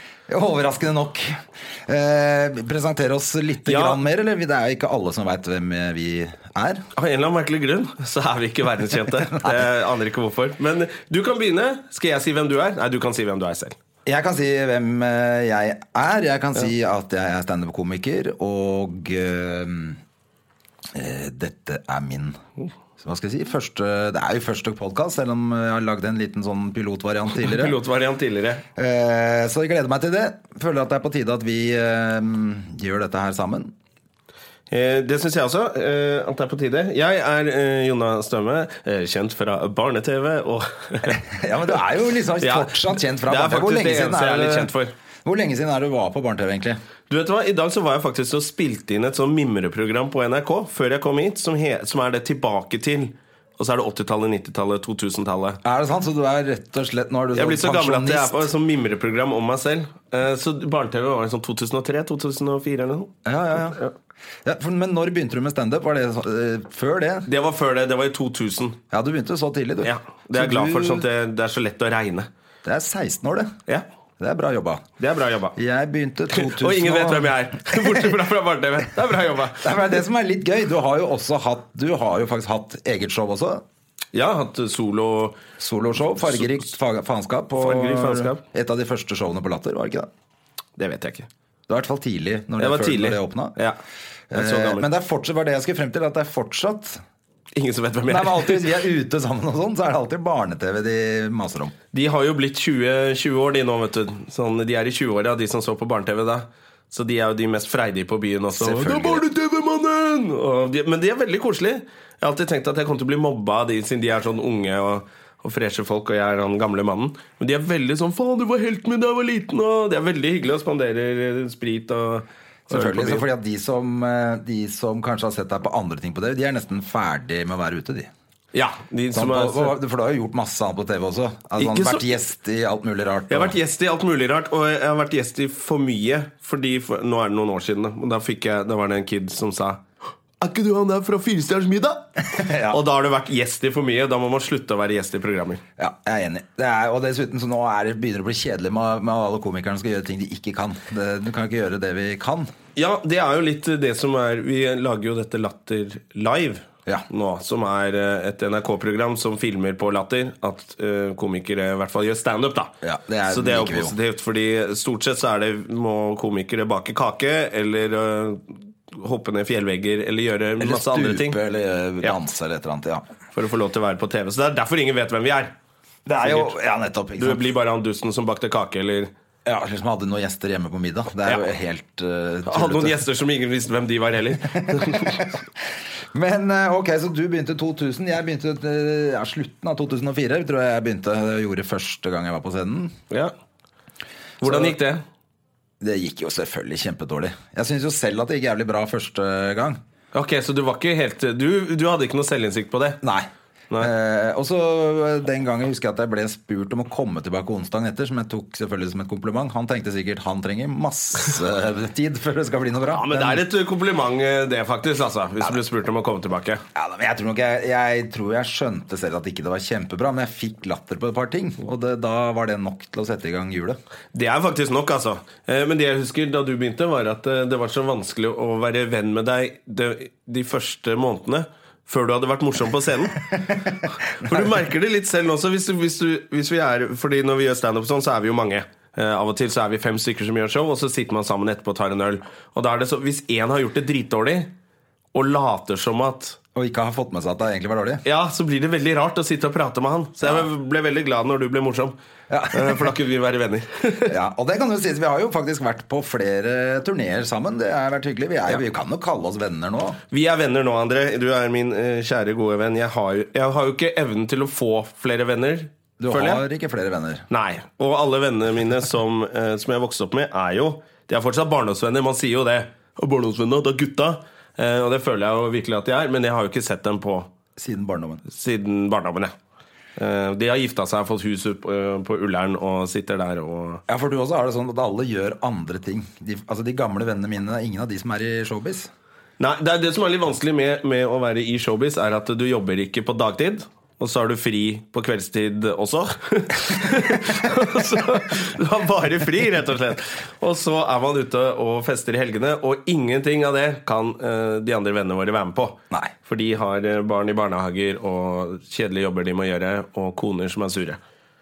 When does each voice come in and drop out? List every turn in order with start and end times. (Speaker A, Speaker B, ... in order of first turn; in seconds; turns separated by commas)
Speaker A: 0.3-6.8, Speaker B: 3.7-4.0, Speaker B: 7.0-13.8, Speaker A: 9.3-9.6, Speaker A: 14.1-20.0, Speaker A: 20.9-22.4, Speaker A: 23.0-27.8, Speaker B: 27.4-28.6, Speaker A: 28.8-33.7, Speaker B: 34.7-41.2, Speaker A: 41.0-44.7, Speaker B: 42.4-44.9, Speaker A: 45.2-46.8, Speaker B: 47.1-55.6, Speaker A: 55.6-58.5, Speaker B: 57.3-63.1, Speaker A: 63.2-63.8, Speaker A: 64.5-67.3, Speaker B: 67.3-68.8, Speaker A: 68.9-71.1, Speaker B: 69.8-72.3, Speaker A: 72.6-73.6, Speaker A: 74.2-74.8, Speaker B: 75.0-75.6, Speaker A: 75.5-78.1, Speaker B: 76.3-79.7, Speaker A: 79.6-83.6, Speaker B: 84.1-85.4, Speaker A: 85.6-90.1, Speaker B: 87.6-88.4, Speaker B: 90.8-91.3, Speaker A: 91.7-93.6, Speaker B: 92.6-93.8, Speaker A: 94.3-97.0, Speaker B: 94.3-94.9, Speaker B: 97.5-98.8, Speaker A: 98.1-101.8, Speaker B: 101.9-123.2, Speaker A: 108.6-109.2, Speaker A: 122.7-128.1, Speaker B: 128.5-129.8, Speaker A: 129.1-133.6, Speaker B: 131.6-132.0, Speaker B: 133.3-139.8, Speaker B: 140.4-145.6, Speaker A: 142.3-142.8, Speaker A: 145.8-152.5, Speaker B: 152.8-162.7, Speaker A: 162.8-163.9, Speaker B: 163.3-171.4, Speaker A: 170.6-173.0, Speaker B: 173.3-175.5, Speaker A: 176.1-177.4, Speaker B: 176.2-176.5, Speaker B: 177.2-179.1, Speaker A: 179.4-183.0, Speaker B: 182.5-185.2, Speaker A: 184.4-185.3, Speaker A: 186.1-192.9, Speaker B: 194.4-195.0, Speaker A: 194.4-194.7, Speaker A: 195.8-199.8, Speaker B: 200.1-203.0, Speaker A: 203.0-203.3, Speaker A: 203.8-213.4, Speaker B: 212.9-216.6, Speaker A: 216.8-223.8, Speaker B: 224.1-233.3, Speaker B: 234.1-244.5, Speaker B: 245.1-246.4, Speaker A: 246.6-248.0, Speaker B: 248.1-251.9, Speaker A: 252.3-252.9, Speaker B: 252.5-254.1, Speaker A: 254.1-260.0, Speaker B: 260.1-266.4, Speaker A: 266.0-267.2, Speaker B: 267.3-277.3, Speaker A: 277.6-278.2, Speaker B: 278.3-279.3, Speaker B: 280.0-283.8, Speaker A: 283.9-288.9, Speaker B: 289.4-311.0